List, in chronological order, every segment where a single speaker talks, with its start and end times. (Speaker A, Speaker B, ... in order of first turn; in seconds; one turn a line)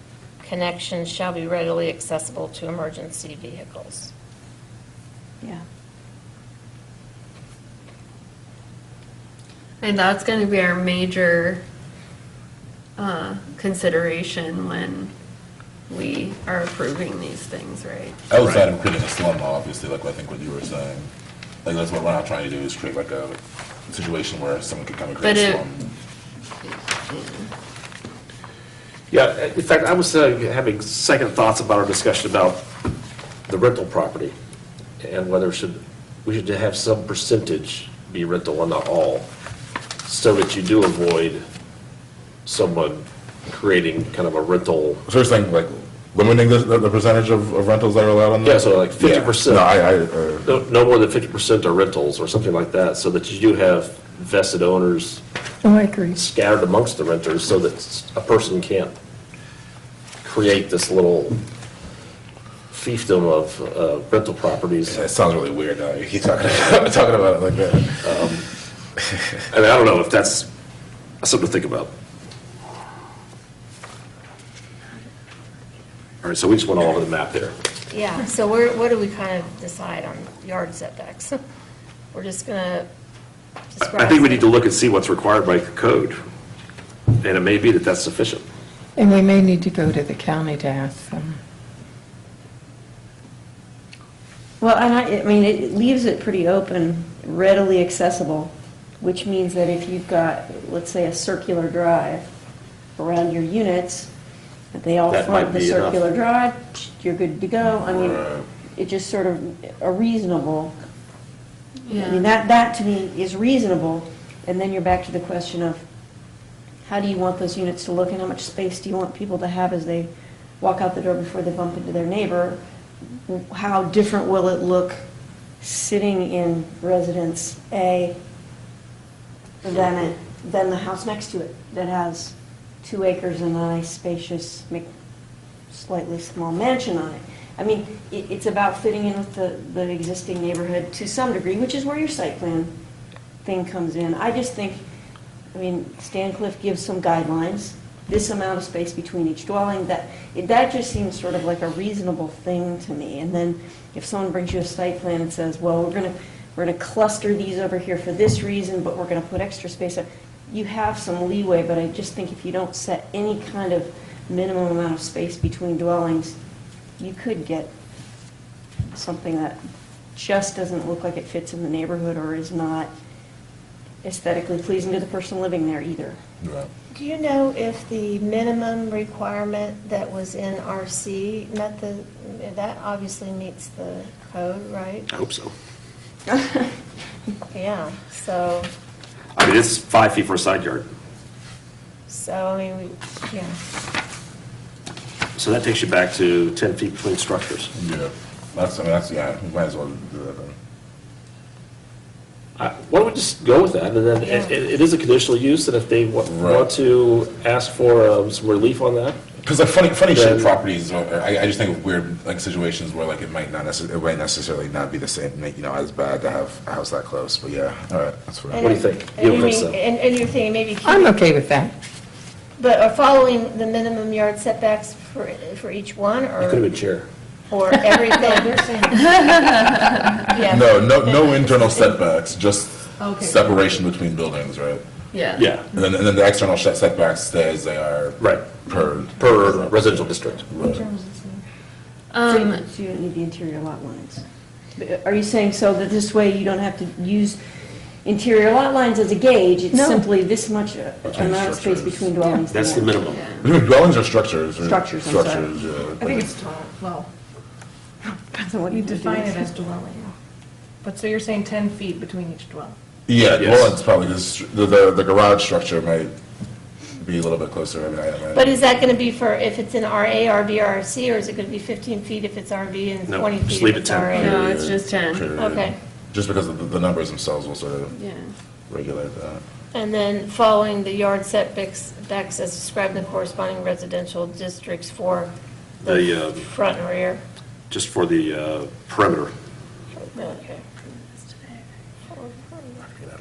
Speaker A: 0.4-4.1
Speaker B: 9.8-11.6
Speaker B: 13.0-15.1
Speaker B: 15.9-18.2
Speaker C: 18.3-21.1
Speaker D: 18.4-18.6
Speaker C: 21.6-23.4
Speaker C: 23.9-25.9
Speaker B: 25.2-25.6
Speaker B: 27.1-27.5
Speaker D: 29.1-32.6
Speaker D: 33.5-34.3
Speaker D: 35.0-39.3
Speaker D: 40.0-41.4
Speaker D: 42.4-45.0
Speaker C: 45.0-50.5
Speaker D: 48.4-49.7
Speaker D: 50.4-55.2
Speaker E: 55.8-56.1
Speaker D: 56.1-58.9
Speaker D: 60.2-61.4
Speaker D: 62.7-65.0
Speaker C: 64.8-68.2
Speaker D: 68.0-68.5
Speaker D: 69.5-70.5
Speaker D: 71.2-71.9
Speaker D: 76.2-77.5
Speaker A: 77.9-81.4
Speaker A: 82.1-82.9
Speaker A: 83.7-84.5
Speaker D: 83.8-86.2
Speaker D: 87.2-88.4
Speaker E: 89.0-91.4
Speaker F: 94.6-102.2
Speaker F: 103.0-104.1
Speaker F: 104.7-110.7
Speaker D: 105.1-106.0
Speaker C: 107.9-108.5
Speaker B: 111.9-112.3
Speaker F: 112.0-115.8
Speaker F: 116.8-122.6
Speaker F: 123.2-125.0
Speaker F: 125.6-128.2
Speaker F: 129.6-134.9
Speaker F: 135.7-142.7
Speaker F: 143.4-144.8
Speaker F: 145.5-166.4
Speaker F: 167.0-167.7
Speaker F: 168.9-169.6
Speaker F: 170.2-172.9
Speaker F: 174.0-176.2
Speaker C: 176.4-176.7
Speaker A: 176.9-185.1
Speaker D: 185.1-185.5
Speaker A: 187.5-188.7
Speaker D: 189.3-190.9
Speaker A: 192.1-193.6
Speaker D: 195.3-197.7
Speaker C: 197.7-200.5
Speaker D: 202.6-209.2
Speaker A: 204.2-204.5
Speaker C: 206.3-206.7
Speaker C: 209.4-218.7
Speaker D: 210.1-210.5
Speaker A: 218.5-221.1
Speaker D: 218.6-219.8
Speaker E: 220.8-221.7
Speaker A: 222.6-226.7
Speaker D: 226.4-227.1
Speaker A: 227.5-229.2
Speaker B: 229.2-229.6
Speaker A: 230.2-231.9
Speaker C: 230.4-234.8
Speaker B: 235.1-235.6
Speaker D: 235.3-235.7
Speaker C: 235.7-240.8
Speaker D: 238.2-238.5
Speaker D: 239.2-240.5
Speaker B: 242.1-242.6
Speaker F: 242.2-244.2
Speaker F: 244.8-247.4
Speaker F: 248.0-253.0
Speaker E: 249.7-250.0
Speaker C: 251.0-252.1
Speaker D: 252.5-253.3
Speaker B: 253.1-253.4
Speaker C: 253.4-256.3
Speaker F: 254.6-255.5
Speaker G: 256.4-257.1
Speaker F: 258.0-259.5
Speaker G: 259.4-259.9
Speaker G: 260.8-262.7
Speaker C: 263.1-266.1
Speaker D: 263.3-263.7
Speaker C: 267.0-268.5
Speaker A: 268.3-274.4
Speaker D: 273.1-274.2
Speaker B: 274.1-275.3
Speaker C: 274.1-278.0
Speaker A: 275.4-275.8
Speaker B: 277.9-278.3
Speaker C: 278.7-279.4
Speaker A: 279.7-285.3
Speaker D: 285.8-286.4
Speaker A: 285.8-287.2
Speaker D: 287.7-289.3
Speaker A: 290.0-290.6
Speaker A: 292.1-292.8